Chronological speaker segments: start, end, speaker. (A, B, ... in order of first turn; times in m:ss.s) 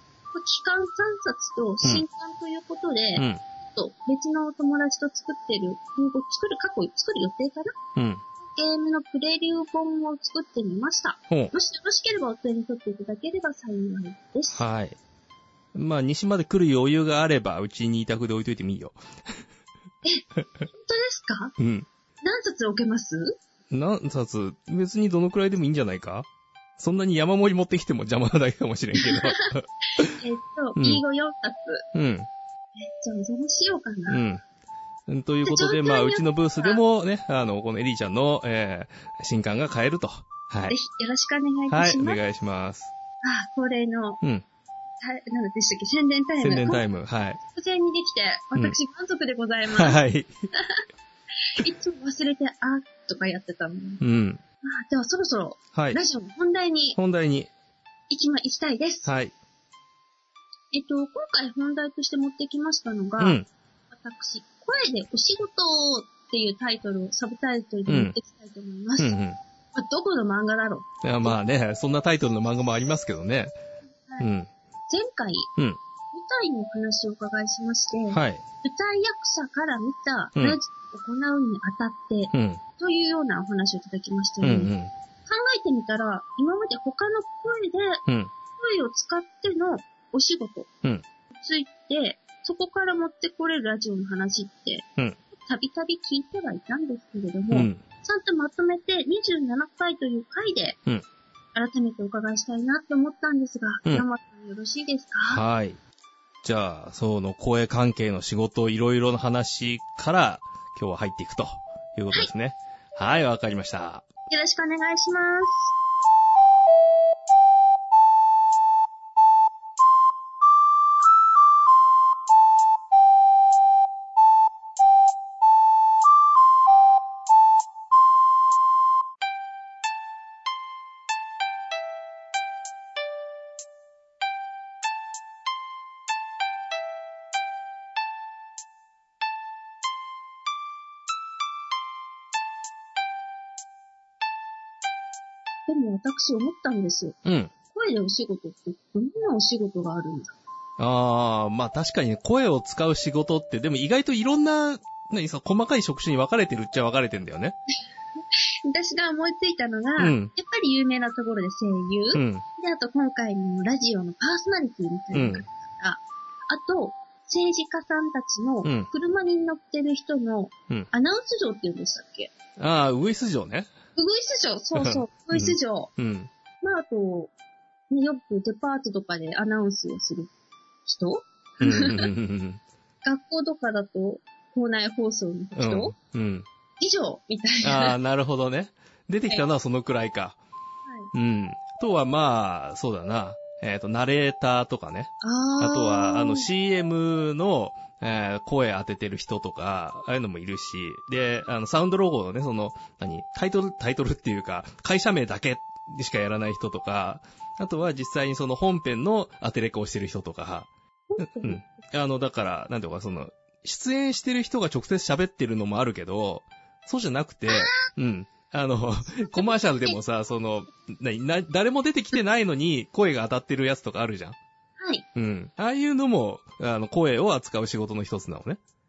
0:00.3-0:07.8 A
0:03.2-0:03.4 B
0:08.0-0:08.2 B
0:08.4-0:14.6 A
0:14.5-0:15.0 B
0:15.7-0:19.4 B
0:20.0-0:21.5 A
0:21.6-0:21.9 B
0:22.2-0:23.4 A
0:23.7-0:26.3 B
0:26.8-0:30.2 B
0:29.0-0:29.5 A
0:30.0-0:31.8 A
0:30.8-0:31.0 B
0:31.9-0:32.3 B
0:32.8-0:34.2 A
0:34.1-0:34.4 B
0:35.1-0:40.7 B
0:35.4-0:36.8 A
0:40.7-0:42.2 A
0:41.7-0:42.9 B
0:43.2-0:44.2 A
0:45.0-0:46.8 A
0:46.4-0:47.4 B
0:47.4-0:50.0 A
0:49.7-0:50.3 B
0:50.5-0:50.8 A
0:51.5-0:54.0 A
0:54.0-0:54.4 B
0:54.6-0:57.0 A
0:57.0-0:57.5 B
0:58.1-0:59.1 A
0:59.0-0:59.3 B
1:00.7-1:03.4 A
1:03.2-1:03.5 B
1:03.9-1:09.2 A
1:07.9-1:08.2 B
1:09.0-1:09.4 B
1:09.7-1:11.4 A
1:11.0-1:13.5 B
1:14.2-1:14.5 B
1:14.9-1:15.5 A
1:16.1-1:24.7 A
1:18.1-1:18.4 B
1:22.3-1:22.6 B
1:24.4-1:24.9 B
1:25.2-1:28.0 A
1:28.0-1:28.3 B
1:28.6-1:30.7 A
1:31.3-1:40.8 A
1:37.5-1:37.8 B
1:41.5-1:45.4 A
1:45.3-1:45.8 B
1:46.4-1:54.0 B
1:54.3-1:55.7 A
2:25.7-2:27.2 A
2:27.2-2:27.5 B
2:27.7-2:30.3 A
2:30.8-2:37.6 B
2:38.6-2:52.3 A
2:40.0-2:40.3 B
2:42.1-2:42.4 B
2:45.1-2:45.4 B
2:48.6-2:48.9 B
2:52.6-2:53.7 B
2:54.0-2:55.9 A
2:54.7-2:56.3 B
2:56.6-2:57.3 A
2:57.9-3:00.3 A
3:00.8-3:02.1 A
3:01.6-3:02.6 B
3:03.0-3:05.9 A
3:05.6-3:06.4 B
3:06.8-3:07.9 A
3:07.6-3:10.4 B
3:11.1-3:30.7 B
3:15.2-3:16.5 A
3:31.1-3:31.6 A
3:31.2-3:44.4 B
3:37.5-3:37.9 A
3:39.2-3:40.0 A
3:44.8-3:45.0 A
3:45.1-3:48.6 B